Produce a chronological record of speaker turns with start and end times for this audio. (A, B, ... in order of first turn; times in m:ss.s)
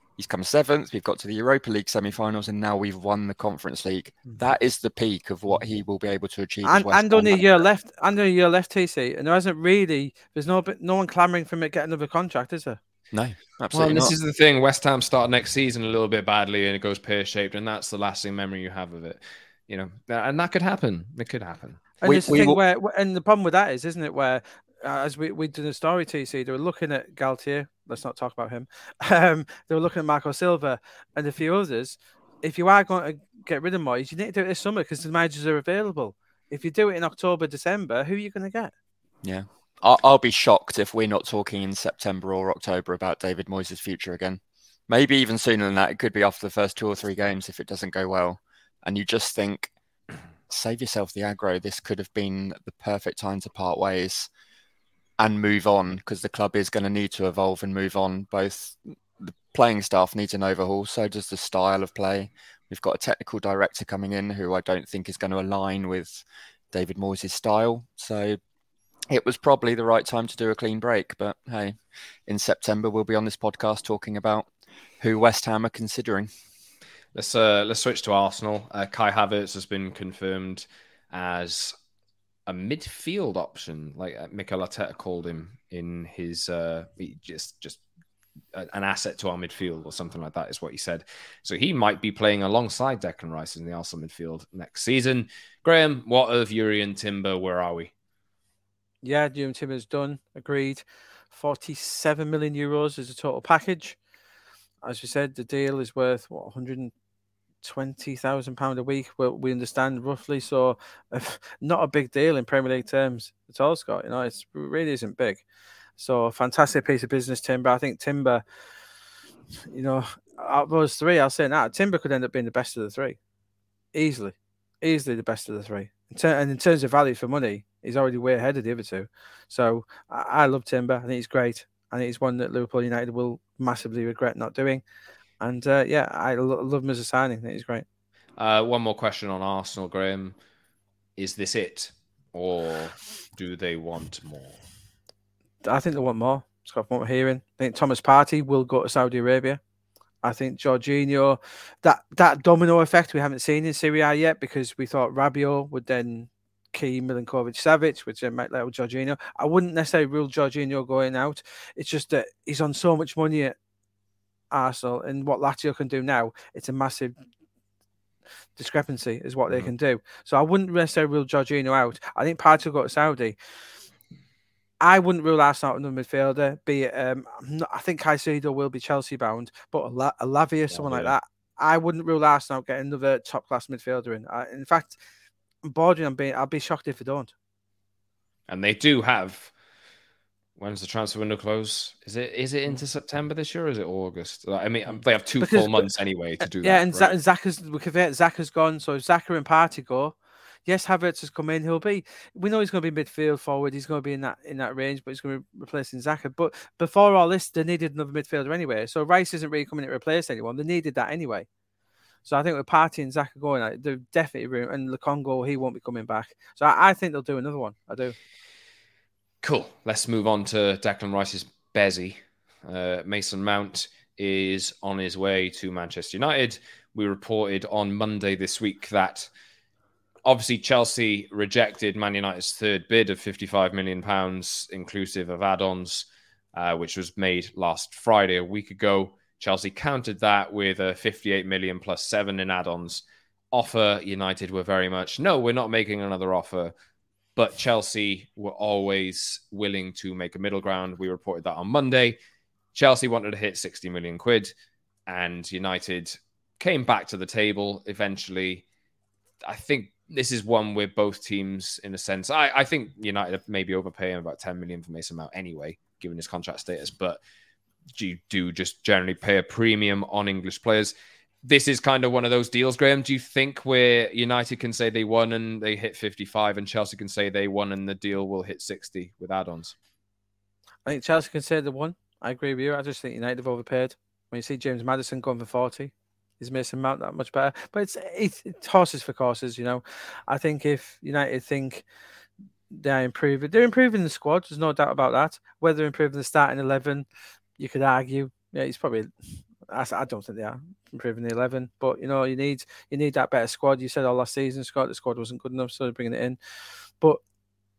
0:00.2-0:07.6 A
0:06.6-0:12.8 B
0:13.1-0:14.1 A
0:13.7-0:21.8 C
0:22.0-0:38.7 B
0:22.0-0:22.6 A
0:39.2-0:49.7 A
0:50.5-0:54.3 A
0:55.2-1:08.4 A
1:09.1-1:14.5 A
1:15.0-1:16.3 A
1:17.1-1:21.7 C
1:22.4-1:27.8 C
1:28.5-1:37.9 C
1:39.0-1:44.0 B
1:44.8-1:46.9 B
1:47.6-1:55.4 B
1:56.0-1:58.4 B
1:59.7-2:03.2 B
2:03.9-2:14.8 B
2:15.4-2:17.8 B
2:18.4-2:20.4 C
2:21.2-2:24.6 C
2:25.6-2:29.6 B
2:30.2-2:43.5 B
2:44.5-2:47.2 B
2:48.6-2:53.4 B
2:54.8-3:05.0 B
3:00.7-3:01.1 C
3:05.6-3:07.3 B
3:08.5-3:09.5 C
3:10.6-3:17.1 C
3:15.4-3:15.8 B
3:16.6-3:20.1 B
3:20.6-3:31.5 B
3:32.2-3:38.2 B
3:39.4-3:49.3 C
3:50.2-4:06.7 C
4:07.4-4:12.2 C
4:12.7-4:14.5 C
4:15.1-4:18.6 C
4:19.4-4:27.2 C
4:27.9-4:39.7 C
4:40.8-4:51.8 B
4:52.7-4:57.0 B
4:57.6-4:59.1 B
4:59.6-5:06.4 B